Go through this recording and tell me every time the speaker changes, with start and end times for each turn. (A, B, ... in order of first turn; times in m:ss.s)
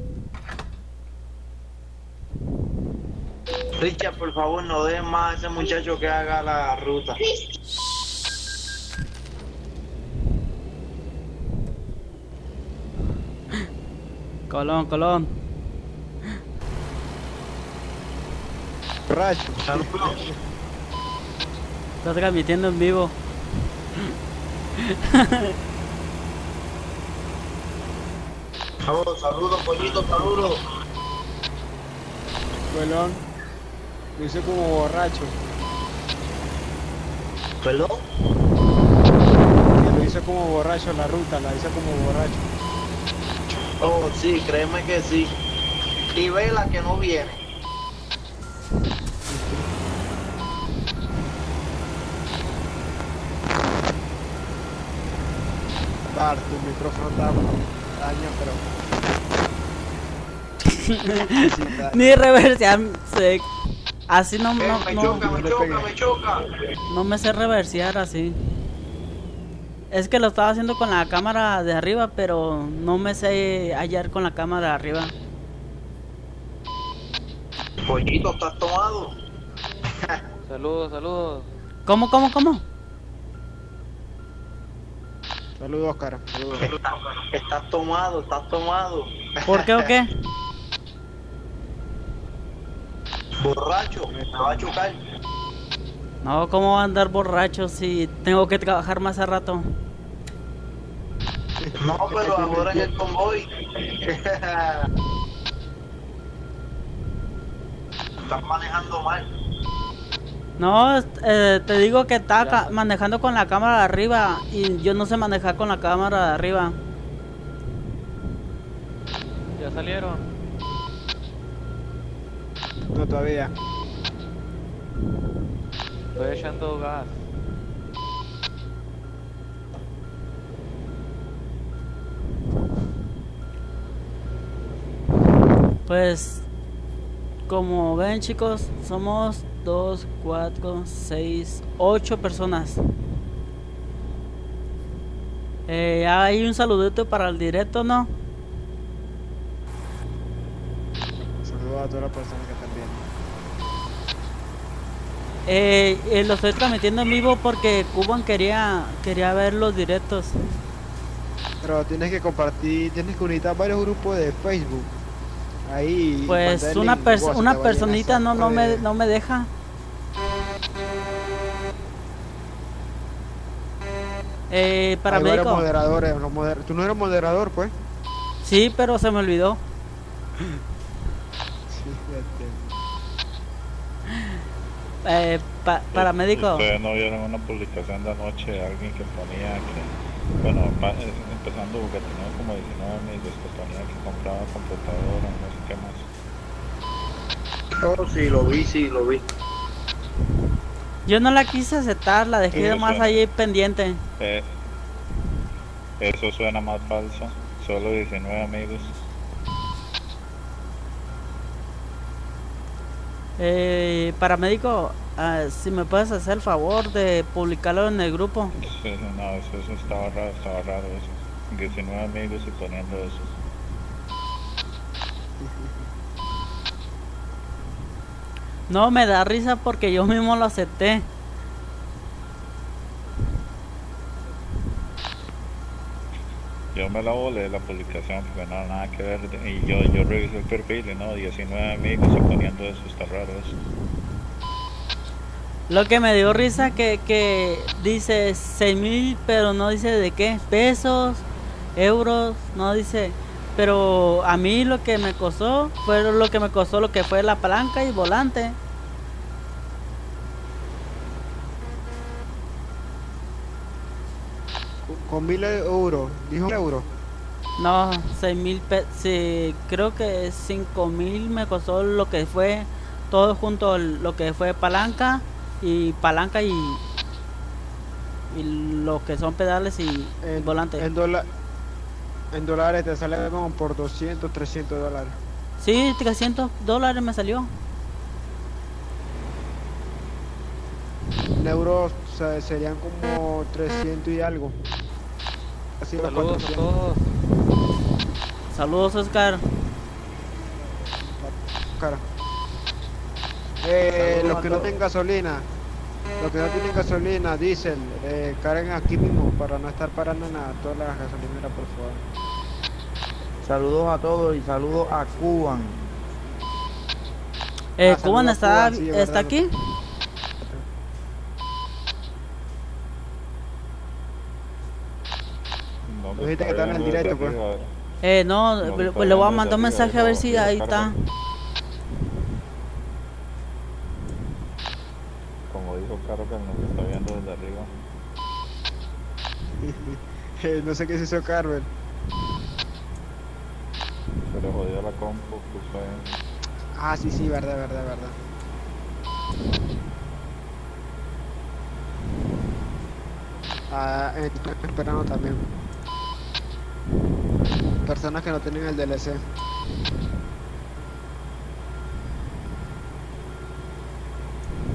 0:03.8-0:07.4 A
0:14.5-0:15.5 B
0:19.1-0:20.3 C
0:19.6-0:20.3 A
0:22.0-0:23.2 B
0:24.8-0:25.6 B
0:28.8-0:30.6 A
0:32.7-0:33.2 C
0:34.2-0:35.3 C
0:37.6-0:38.0 A
0:39.7-0:42.5 C
0:43.8-0:45.3 A
0:46.1-0:47.4 A
0:49.3-0:49.6 C
0:56.1-0:58.7 C
1:00.7-1:03.5 B
1:01.2-1:02.2 C
1:04.1-1:05.3 B
1:04.6-1:06.6 A
1:05.0-1:05.9 C
1:06.9-1:08.5 B
1:09.9-1:15.1 B
1:17.8-1:19.1 A
1:20.4-1:21.5 D
1:21.9-1:22.6 B
1:25.6-1:26.7 C
1:26.6-1:29.9 A
1:29.5-1:30.1 B
1:33.4-1:35.0 A
1:36.2-1:39.7 B
1:41.8-1:44.8 A
1:42.3-1:42.7 C
1:48.2-1:49.2 A
1:50.6-1:56.8 B
1:52.4-1:52.8 D
1:59.6-2:00.2 D
2:02.9-2:03.5 C
2:06.2-2:07.2 D
2:15.9-2:16.4 B
2:17.5-2:22.8 B
2:25.7-2:28.1 B
2:31.4-2:33.1 C
2:35.5-2:40.4 B
2:41.6-2:44.9 C
2:45.7-2:48.8 C
2:46.3-2:49.5 B
2:54.5-2:55.6 B
2:55.1-2:57.7 C
2:58.4-2:59.6 B
3:01.7-3:02.6 C
3:05.0-3:06.7 B
3:05.9-3:09.9 E
3:10.4-3:16.1 E
3:17.8-3:19.2 A
3:21.1-3:24.0 B
3:22.5-3:23.2 E
3:24.2-3:24.5 E
3:26.0-3:29.0 E
3:33.4-3:38.5 B
3:38.5-3:43.3 E
3:48.7-3:51.1 B
3:56.7-4:03.6 E
4:05.7-4:11.2 B
4:11.8-4:18.6 B
4:24.8-4:26.9 C
4:27.6-4:36.8 B
4:38.3-4:40.9 B
4:40.2-4:41.3 C
4:42.3-4:45.2 C
4:45.6-4:47.5 B
4:51.4-4:54.6 C
4:55.8-4:56.7 C
4:56.0-4:57.0 D
4:58.5-4:59.5 B
5:01.2-5:02.0 C
5:03.6-5:05.5 C
5:04.0-5:04.7 F
5:06.2-5:12.1 C
5:13.4-5:15.8 F
5:17.8-5:19.5 B
5:17.8-5:19.4 C
5:25.9-5:27.7 E
5:26.2-5:27.4 C
5:28.0-5:31.0 B
5:28.6-5:30.9 E
5:35.5-5:37.7 E
5:39.6-5:41.7 C
5:44.3-5:46.0 E
5:46.8-5:48.2 C
5:53.7-5:55.5 C
5:57.8-5:59.2 C